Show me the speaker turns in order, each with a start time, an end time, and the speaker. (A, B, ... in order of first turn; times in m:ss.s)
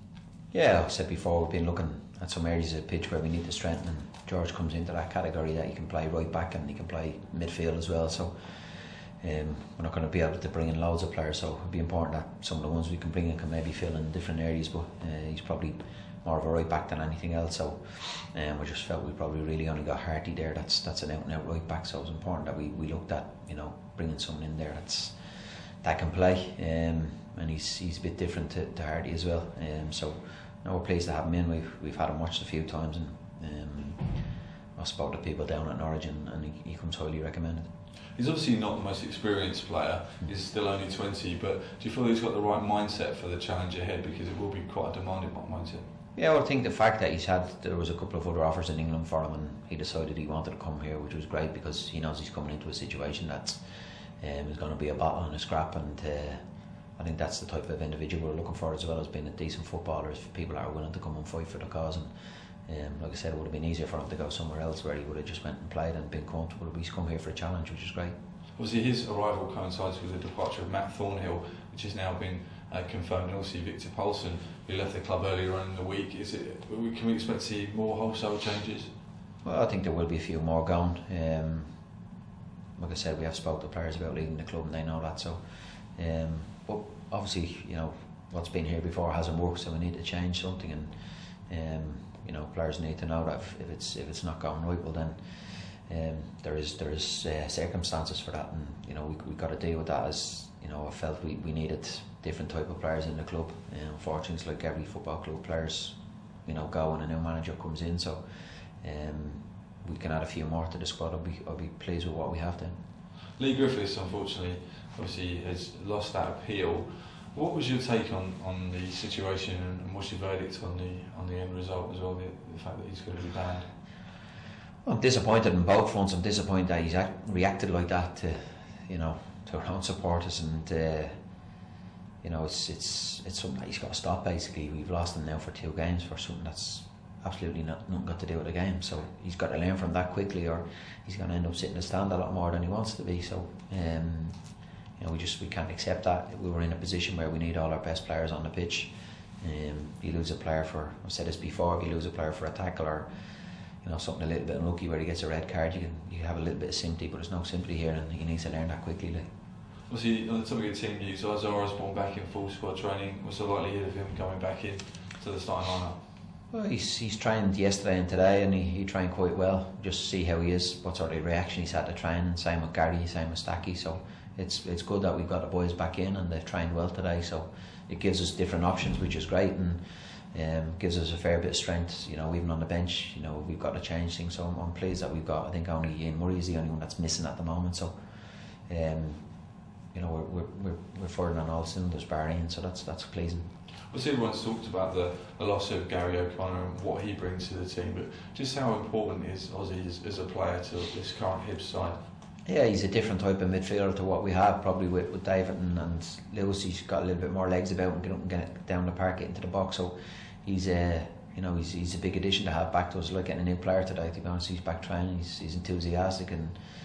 0:00.5-0:08.3 A
0:09.2-0:37.7 A
0:38.2-0:45.8 B
0:46.2-0:53.6 A
0:54.2-0:56.4 A
0:57.0-1:02.1 A
1:02.6-1:08.2 A
1:08.6-1:18.9 B
1:19.4-1:21.7 A
1:22.8-1:25.4 A
1:25.9-1:30.9 A
1:31.5-1:48.2 A
1:48.8-1:52.8 A
1:53.4-2:03.7 B
2:04.8-2:11.2 A
2:12.2-2:33.1 A
2:33.8-2:39.3 A
2:39.9-2:46.0 B
2:46.5-2:59.8 A
3:00.3-3:07.9 A
3:08.7-3:09.3 A
3:09.9-3:13.5 A
3:13.9-3:22.0 B
3:22.5-3:36.6 A